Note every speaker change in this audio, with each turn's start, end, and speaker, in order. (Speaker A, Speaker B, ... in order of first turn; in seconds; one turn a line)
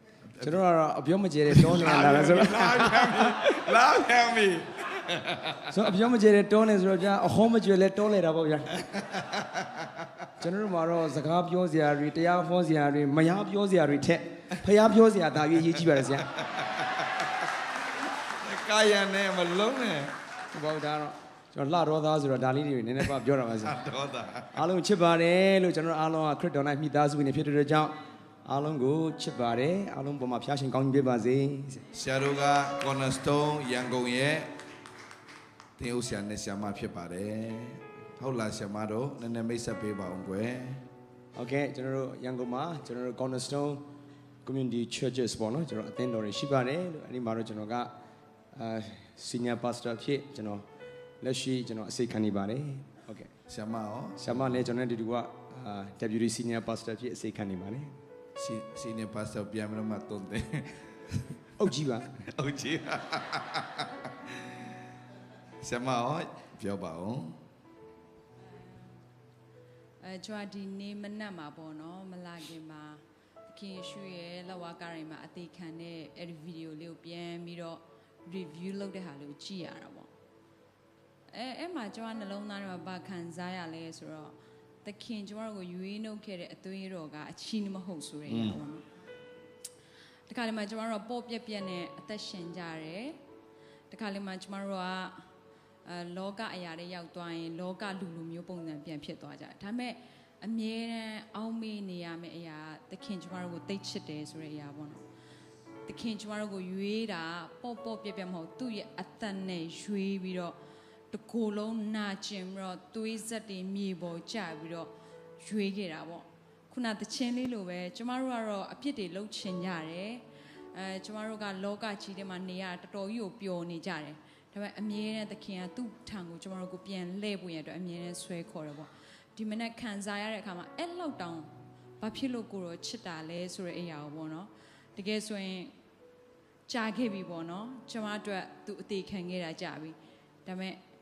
Speaker A: 0.4-3.5
Speaker B: 1.5-5.7
Speaker A: 5.7-8.9
Speaker B: 9.1-9.8
Speaker A: 10.4-16.3
Speaker B: 16.5-17.0
Speaker B: 18.4-20.1
Speaker A: 20.5-23.8
Speaker B: 23.6-24.6
Speaker A: 24.5-31.8
Speaker B: 31.9-34.5
Speaker B: 35.8-40.8
Speaker A: 41.3-43.8
Speaker A: 44.4-47.9
Speaker A: 48.5-50.6
Speaker A: 51.2-53.3
Speaker B: 53.5-54.6
Speaker A: 54.2-57.9
Speaker B: 58.4-61.3
Speaker A: 61.6-62.2
Speaker B: 62.1-64.3
Speaker B: 65.6-67.4
Speaker C: 70.0-80.1
Speaker C: 81.3-88.8
Speaker B: 88.3-88.6
Speaker C: 90.3-93.2
Speaker C: 93.9-95.2
Speaker C: 95.8-105.0
Speaker C: 105.8-110.5
Speaker C: 111.1-135.7
Speaker C: 136.7-140.8